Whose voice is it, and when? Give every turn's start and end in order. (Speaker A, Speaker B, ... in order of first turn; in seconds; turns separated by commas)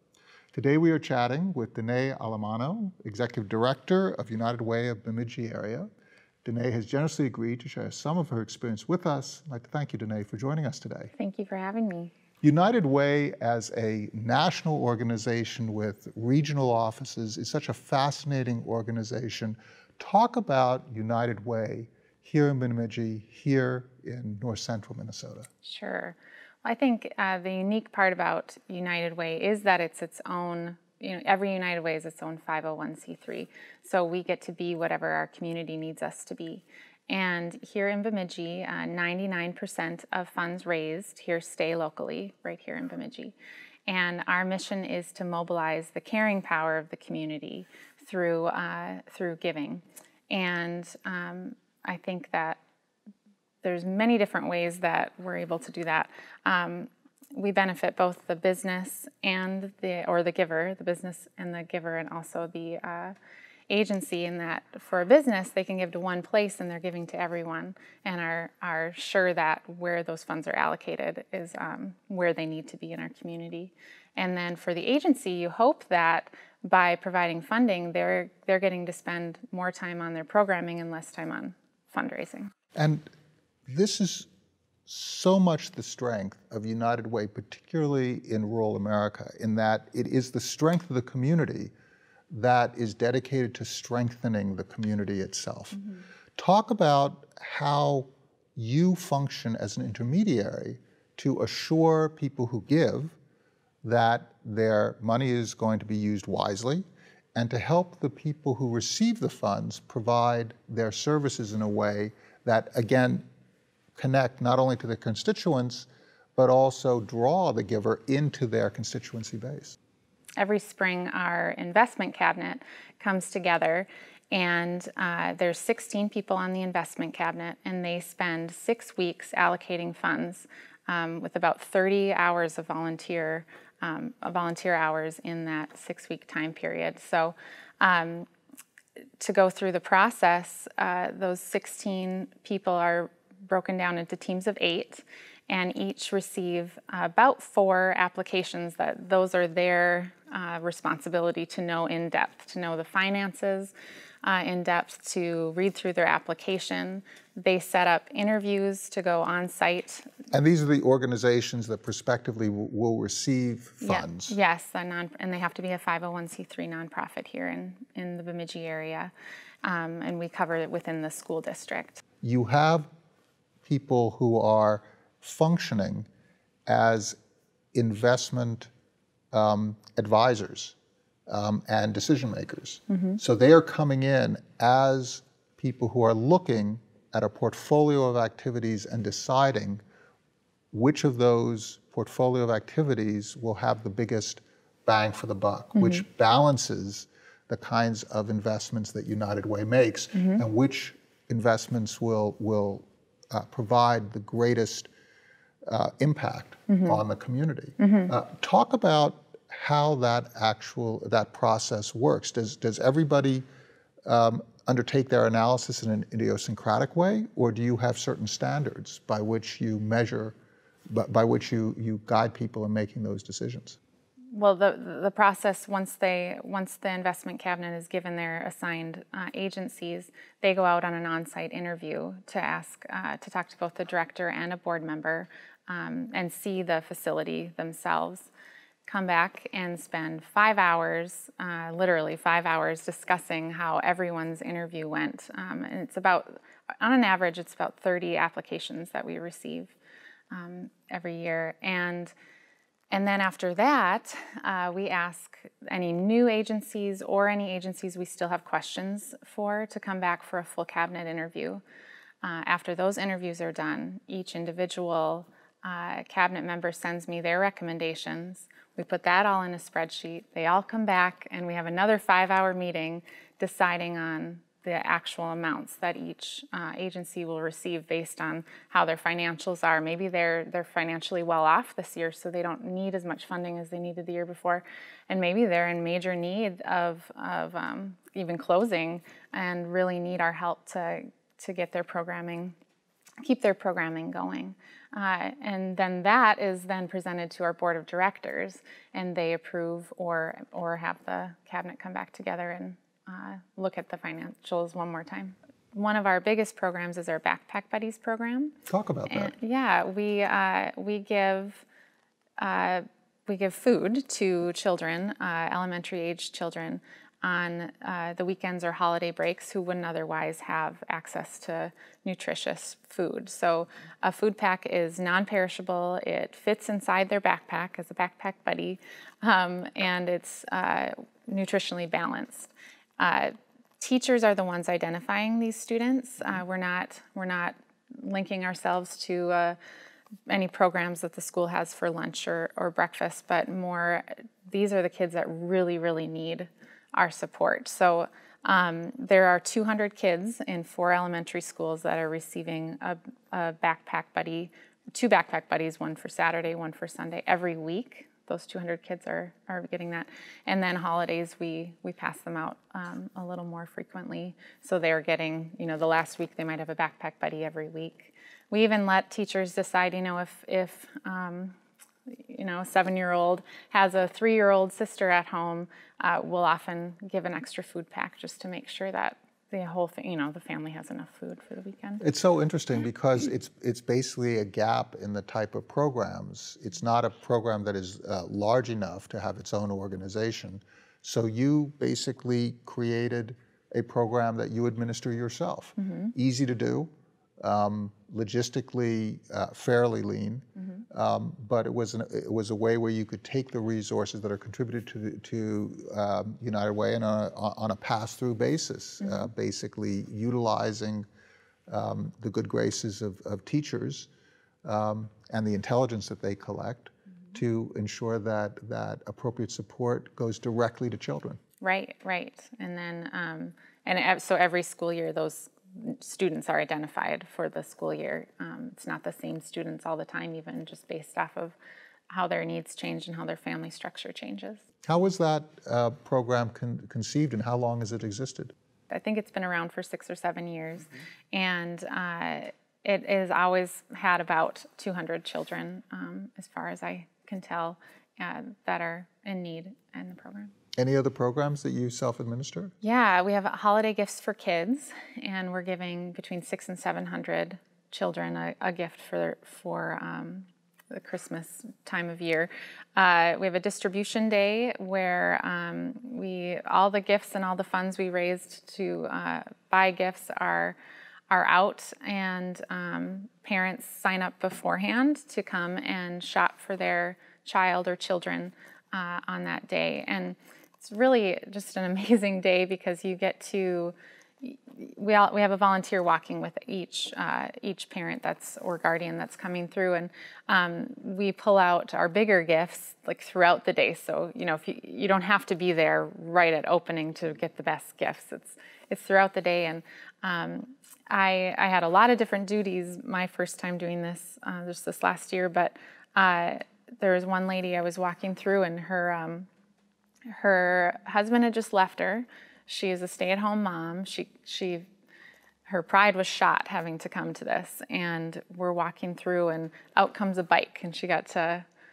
Speaker A: 0.5-5.9, Speaker A: 6.4-11.1, Speaker B: 11.2-12.1, Speaker A: 12.4-25.5, Speaker B: 25.6-43.4, Speaker B: 43.9-52.6, Speaker B: 53.6-63.1, Speaker B: 63.7-82.5, Speaker A: 82.8-83.1, Speaker A: 83.7-84.3, Speaker A: 84.9-91.7, Speaker A: 92.3-95.8, Speaker A: 96.4-103.2, Speaker A: 103.8-113.2, Speaker A: 114.0-119.8, Speaker B: 120.4-138.3, Speaker B: 139.2-160.1, Speaker A: 160.3-164.4, Speaker B: 163.8-169.1, Speaker B: 169.6-172.0, Speaker A: 172.2-172.9, Speaker A: 173.6-176.1, Speaker A: 176.7-177.2, Speaker A: 177.7-178.7, Speaker A: 179.3-180.8, Speaker A: 181.3-189.8, Speaker B: 182.9-183.2, Speaker A: 190.7-204.9, Speaker B: 195.8-196.0, Speaker B: 200.2-200.4, Speaker A: 205.7-213.4, Speaker B: 206.7-207.0, Speaker B: 207.8-208.1, Speaker A: 214.1-220.3, Speaker A: 220.9-223.8, Speaker B: 224.3-238.3, Speaker B: 238.9-249.8, Speaker B: 250.3-252.1, Speaker B: 252.9-261.6, Speaker B: 262.2-292.6, Speaker B: 293.2-311.6, Speaker A: 308.7-309.3, Speaker B: 312.4-339.6, Speaker B: 340.3-371.6, Speaker B: 372.2-382.0, Speaker A: 382.0-396.9, Speaker B: 395.8-396.1, Speaker A: 397.4-411.1, Speaker B: 409.0-409.3, Speaker A: 411.7-414.1, Speaker A: 414.6-421.4, Speaker B: 421.6-431.6, Speaker B: 432.1-434.6, Speaker A: 434.9-438.5, Speaker B: 438.9-450.5, Speaker A: 450.8-452.7, Speaker B: 452.8-470.8, Speaker B: 471.3-509.5, Speaker B: 510.3-514.9, Speaker B: 515.7-521.7